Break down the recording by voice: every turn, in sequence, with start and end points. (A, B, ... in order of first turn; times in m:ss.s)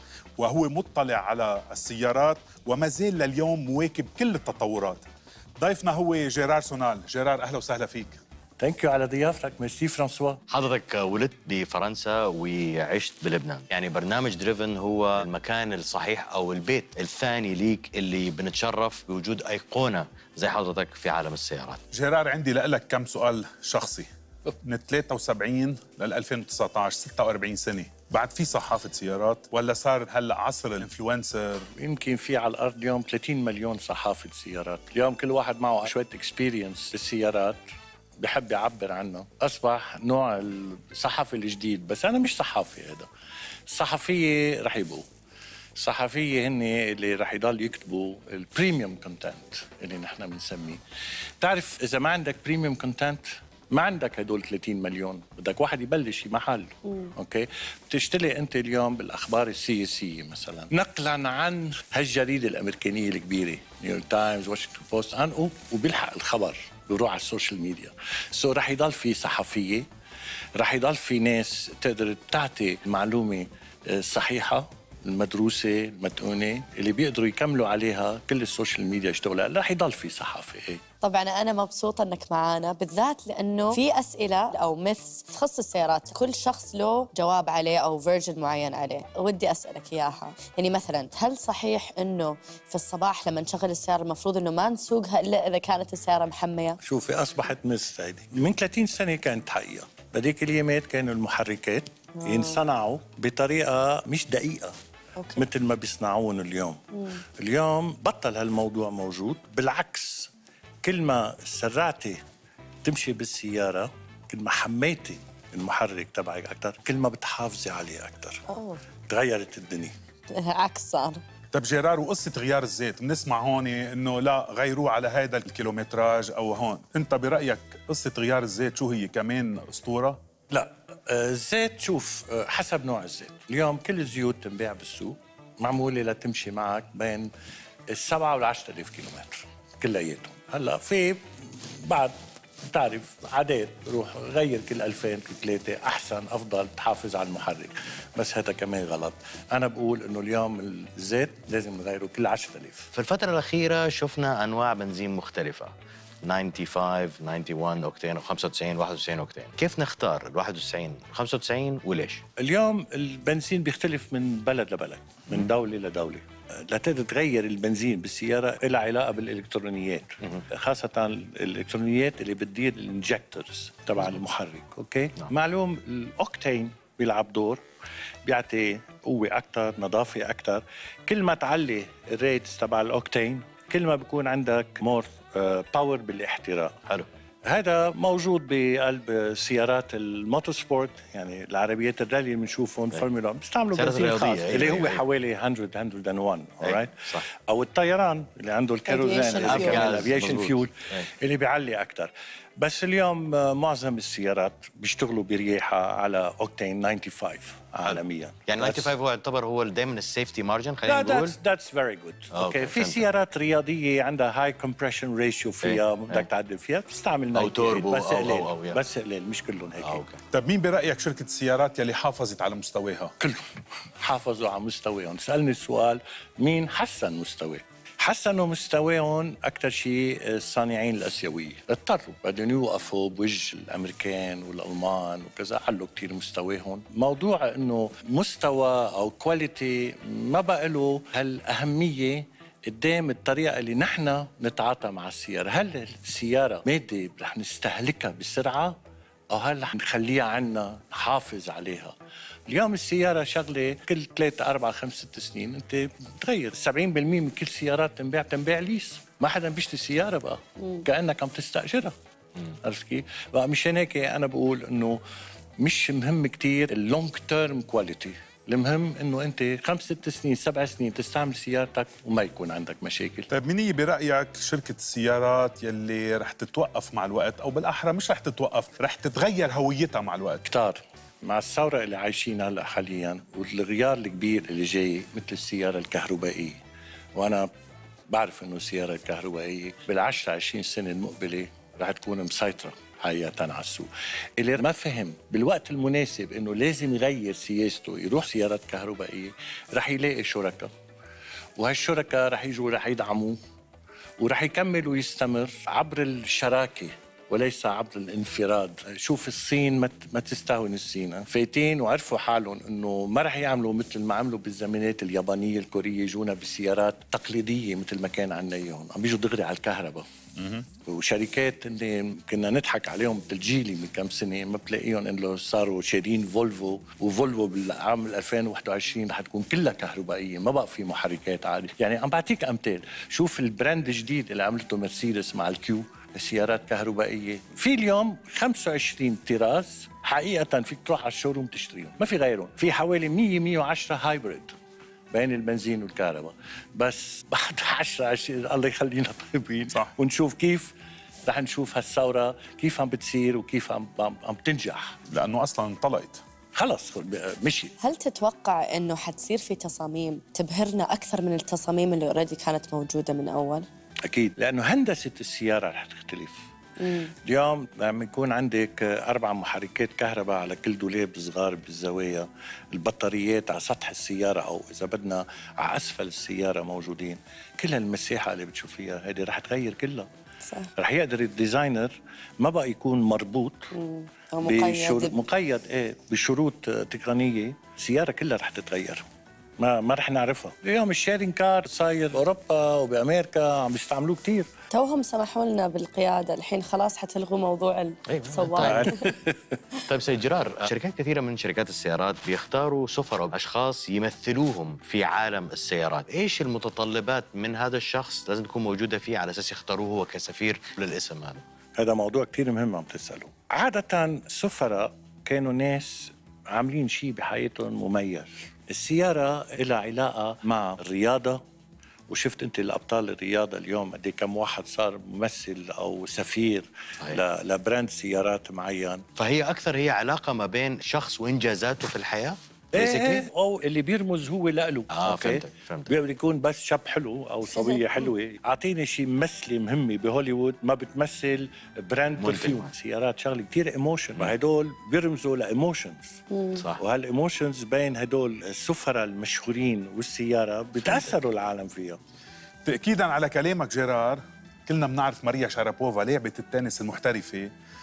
0:00.4-0:05.0 A
0:05.6-0:08.2 A
0:08.6-0:10.4 B
0:10.5-0:21.8 C
0:21.9-0:24.1 A
0:24.6-0:31.7 A
0:31.8-0:37.6 B
0:38.2-0:43.1 B
0:43.7-0:45.1 B
0:45.8-0:50.8 B
0:51.4-1:09.9 B
0:56.8-0:57.1 D
1:10.6-1:20.8 B
1:21.0-1:36.8 D
1:36.8-1:44.7 B
1:42.2-1:42.6 D
1:45.2-1:45.4 D
1:45.3-1:50.3 B
1:46.9-1:47.2 D
1:50.8-1:52.2 B
1:52.8-1:58.4 B
1:58.5-1:58.8 D
1:59.1-1:59.9 B
2:00.3-2:01.2 D
2:01.5-2:10.2 A
2:10.5-2:17.3 B
2:17.9-2:32.9 B
2:32.9-2:42.2 C
2:42.4-2:57.6 B
2:58.2-3:06.8 B
3:07.4-3:28.9 B
3:13.7-3:15.0 C
3:16.6-3:17.2 C
3:18.9-3:20.1 D
3:19.3-3:21.1 C
3:27.9-3:31.4 C
3:30.8-3:40.0 B
3:32.3-3:33.0 C
3:35.6-3:36.2 C
3:37.3-3:38.8 C
3:39.8-3:40.2 C
3:40.3-3:43.1 A
3:43.2-4:08.8 B
4:09.3-4:11.9 B
4:12.5-4:21.9 B
4:22.4-4:25.0 B
4:25.6-4:33.3 B
4:33.3-4:40.5 A
4:40.4-4:46.6 B
4:47.1-4:47.5 B
4:48.1-5:00.7 B
5:01.6-5:03.4 B
5:04.2-5:20.0 B
5:20.4-5:20.6 A
5:20.8-5:44.5 B
5:45.1-5:50.7 B
5:51.2-5:55.0 B
5:55.1-5:56.2 A
5:56.6-5:57.8 B
5:57.8-6:03.7 D
6:04.0-6:06.4 B
6:06.8-6:07.1 D
6:07.2-6:20.1 B
6:20.4-6:20.7 D
6:20.8-6:23.7 B
6:23.7-6:25.2 D
6:24.4-6:29.0 B
6:29.6-6:34.5 B
6:34.7-6:39.1 D
6:38.1-6:39.0 C
6:38.5-6:39.6 B
6:39.8-6:51.4 C
6:51.8-7:01.4 B
7:02.1-7:09.0 B
7:09.2-7:13.3 C
7:12.7-7:26.2 B
7:14.9-7:15.9 C
7:22.2-7:22.7 C
7:26.3-7:26.6 D
7:26.5-7:26.8 C
7:26.8-7:32.0 B
7:30.8-7:31.1 C
7:32.6-7:37.5 A